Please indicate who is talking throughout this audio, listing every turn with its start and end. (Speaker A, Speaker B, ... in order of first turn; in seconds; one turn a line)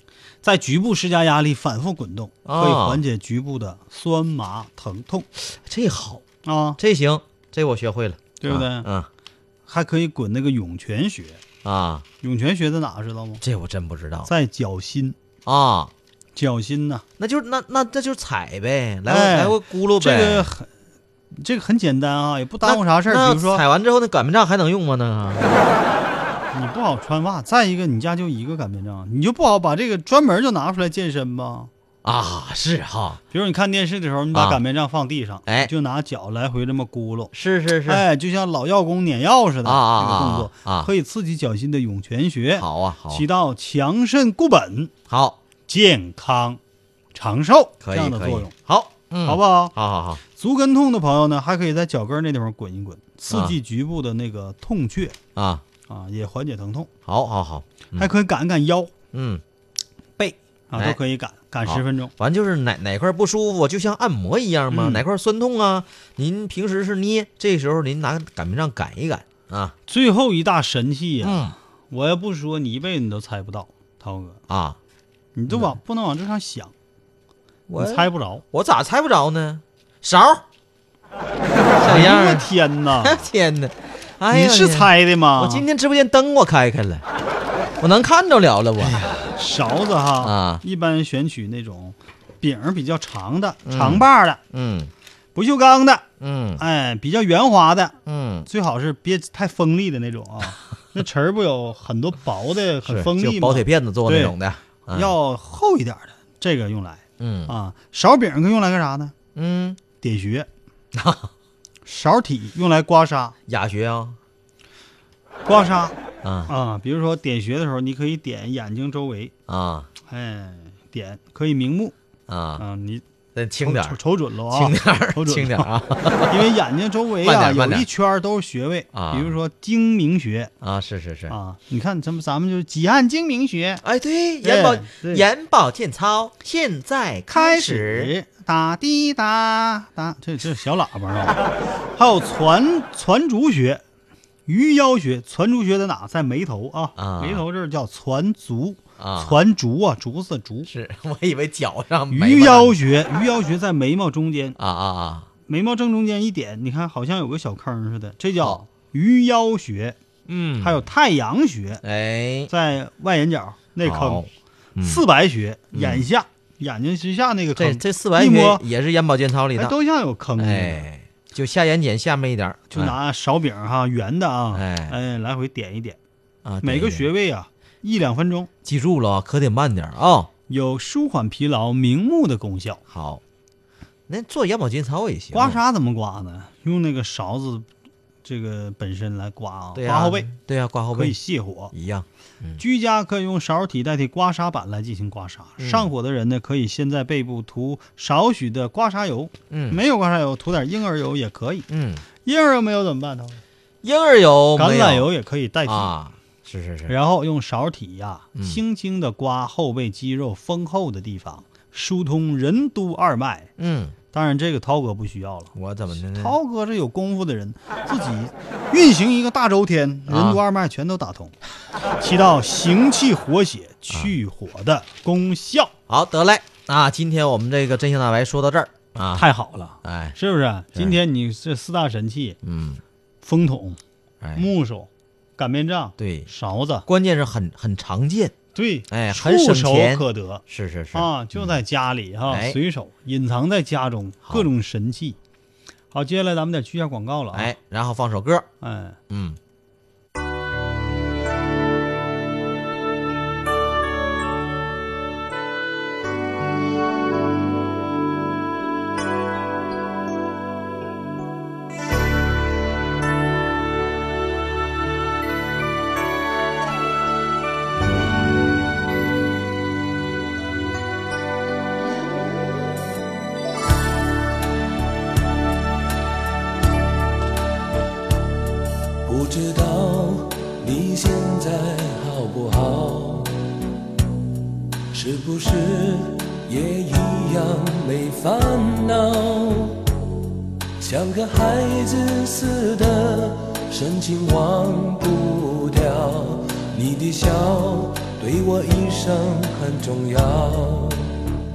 Speaker A: 0.4-5.3
Speaker B: 2.4-3.0
Speaker B: 5.4-6.2
Speaker A: 6.4-6.8
Speaker B: 6.8-9.1
Speaker A: 8.4-8.9
Speaker A: 9.7-11.4
Speaker B: 11.6-12.0
Speaker A: 12.2-13.4
Speaker B: 13.4-14.3
Speaker A: 14.2-15.2
Speaker B: 15.4-15.9
Speaker A: 16.3-17.0
Speaker B: 17.2-20.5
Speaker A: 19.1-20.7
Speaker A: 21.3-23.6
Speaker B: 22.6-25.6
Speaker A: 26.5-31.7
Speaker B: 32.0-33.2
Speaker A: 33.3-37.3
Speaker B: 34.3-34.6
Speaker B: 37.3-38.0
Speaker A: 37.9-44.9
Speaker B: 39.6-40.9
Speaker B: 42.6-43.2
Speaker B: 45.1-45.4
Speaker A: 45.7-46.6
Speaker A: 47.1-48.5
Speaker B: 47.8-50.2
Speaker A: 49.2-49.7
Speaker A: 50.3-55.2
Speaker B: 53.3-53.5
Speaker B: 55.3-55.6
Speaker A: 55.9-56.9
Speaker B: 57.0-58.1
Speaker A: 58.0-58.9
Speaker B: 59.1-59.4
Speaker A: 60.2-62.1
Speaker B: 61.6-69.7
Speaker A: 64.7-65.0
Speaker A: 69.9-74.4
Speaker B: 71.2-71.5
Speaker B: 74.5-74.8
Speaker A: 75.3-76.7
Speaker B: 77.7-80.4
Speaker A: 77.8-78.4
Speaker B: 81.8-82.5
Speaker A: 81.8-83.2
Speaker B: 83.0-87.0
Speaker A: 84.3-85.7
Speaker B: 87.8-89.0
Speaker A: 88.8-94.4
Speaker B: 90.2-90.6
Speaker B: 93.6-94.9
Speaker A: 95.3-96.0
Speaker B: 96.2-96.6
Speaker A: 96.6-98.0
Speaker B: 98.0-98.5
Speaker A: 98.5-104.3
Speaker B: 102.8-105.1
Speaker A: 104.9-109.1
Speaker B: 107.2-107.5
Speaker B: 109.3-109.8
Speaker A: 110.0-110.5
Speaker B: 110.9-111.3
Speaker A: 111.8-113.3
Speaker B: 113.5-114.2
Speaker A: 115.4-119.3
Speaker B: 116.2-116.5
Speaker B: 119.5-119.9
Speaker A: 120.1-121.9
Speaker B: 122.3-122.6
Speaker A: 122.6-123.0
Speaker B: 123.3-126.5
Speaker A: 123.6-125.7
Speaker A: 126.3-130.5
Speaker B: 127.2-127.9
Speaker B: 128.9-129.3
Speaker B: 130.6-131.3
Speaker A: 131.3-133.8
Speaker B: 133.8-138.1
Speaker A: 134.4-135.3
Speaker A: 137.3-143.8
Speaker A: 144.5-150.7
Speaker B: 147.0-147.4
Speaker B: 149.0-149.4
Speaker B: 150.7-152.8
Speaker A: 152.1-154.6
Speaker B: 154.6-155.3
Speaker A: 155.5-160.0
Speaker B: 160.2-160.8
Speaker A: 160.6-161.8
Speaker B: 161.8-162.5
Speaker A: 162.5-164.2
Speaker B: 163.8-165.0
Speaker A: 164.8-168.6
Speaker B: 165.7-166.1
Speaker B: 167.6-169.7
Speaker A: 169.5-170.8
Speaker B: 170.4-172.9
Speaker A: 172.7-176.0
Speaker B: 174.5-174.9
Speaker B: 176.4-177.1
Speaker A: 176.6-178.5
Speaker B: 178.6-180.3
Speaker A: 180.5-182.8
Speaker B: 182.9-183.2
Speaker B: 184.1-185.6
Speaker A: 185.3-187.7
Speaker A: 188.2-190.3
Speaker B: 189.7-191.2
Speaker A: 190.9-191.7
Speaker B: 191.7-192.6
Speaker A: 192.6-201.7
Speaker B: 195.6-195.9
Speaker B: 199.5-199.8
Speaker B: 201.7-202.0
Speaker A: 202.2-203.4
Speaker B: 203.8-205.1
Speaker A: 204.6-205.9
Speaker B: 205.7-206.9
Speaker A: 206.9-213.5
Speaker B: 208.3-208.6
Speaker B: 213.6-213.9
Speaker A: 214.1-221.3
Speaker B: 215.5-216.4
Speaker B: 220.1-220.4
Speaker A: 222.0-225.7
Speaker B: 225.9-229.2
Speaker A: 229.1-232.4
Speaker B: 229.8-230.2
Speaker B: 232.4-232.8
Speaker A: 233.2-233.8
Speaker B: 234.2-234.5
Speaker A: 234.3-236.9
Speaker B: 236.0-236.3
Speaker B: 236.9-238.3
Speaker A: 238.5-240.4
Speaker B: 238.9-241.6
Speaker A: 240.9-245.2
Speaker B: 242.3-242.6
Speaker A: 245.9-247.5
Speaker B: 247.3-248.5
Speaker A: 248.6-249.0
Speaker B: 249.1-249.4
Speaker C: 279.0-283.4
Speaker C: 284.9-289.9
Speaker C: 290.8-301.2